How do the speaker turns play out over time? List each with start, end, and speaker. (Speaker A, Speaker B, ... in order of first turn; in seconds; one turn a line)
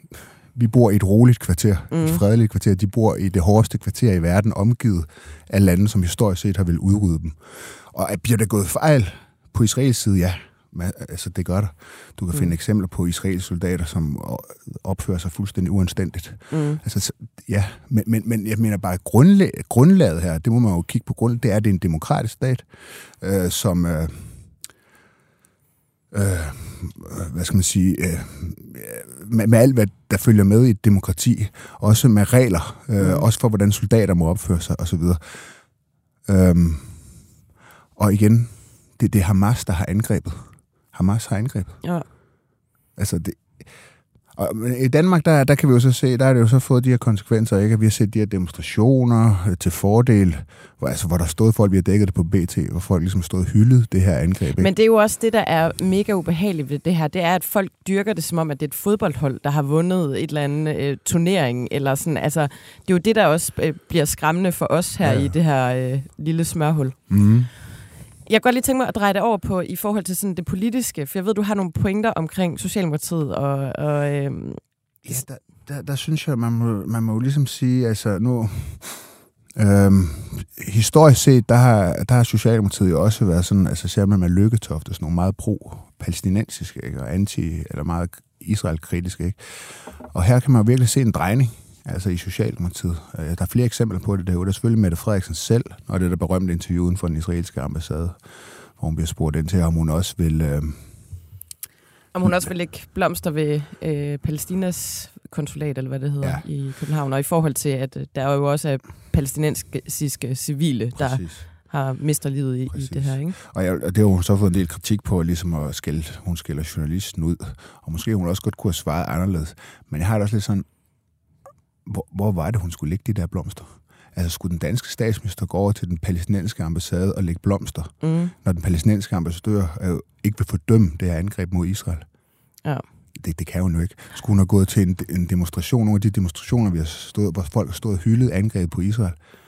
Speaker A: 0.5-24.5
Speaker B: 1.9-2.2
Speaker B: 16.5-16.8
Speaker A: 26.1-35.6
Speaker B: 33.0-33.2
Speaker A: 36.2-37.2
Speaker A: 38.0-41.8
Speaker A: 43.0-43.7
Speaker A: 44.3-54.7
Speaker B: 54.6-67.1
Speaker A: 65.0-65.3
Speaker A: 67.1-67.5
Speaker B: 68.3-74.6
Speaker A: 75.0-101.1
Speaker B: 102.1-113.4
Speaker A: 102.2-102.5
Speaker A: 106.2-106.5
Speaker A: 111.0-111.5
Speaker A: 112.7-120.7
Speaker A: 121.8-132.1
Speaker B: 128.0-128.3
Speaker A: 133.2-139.2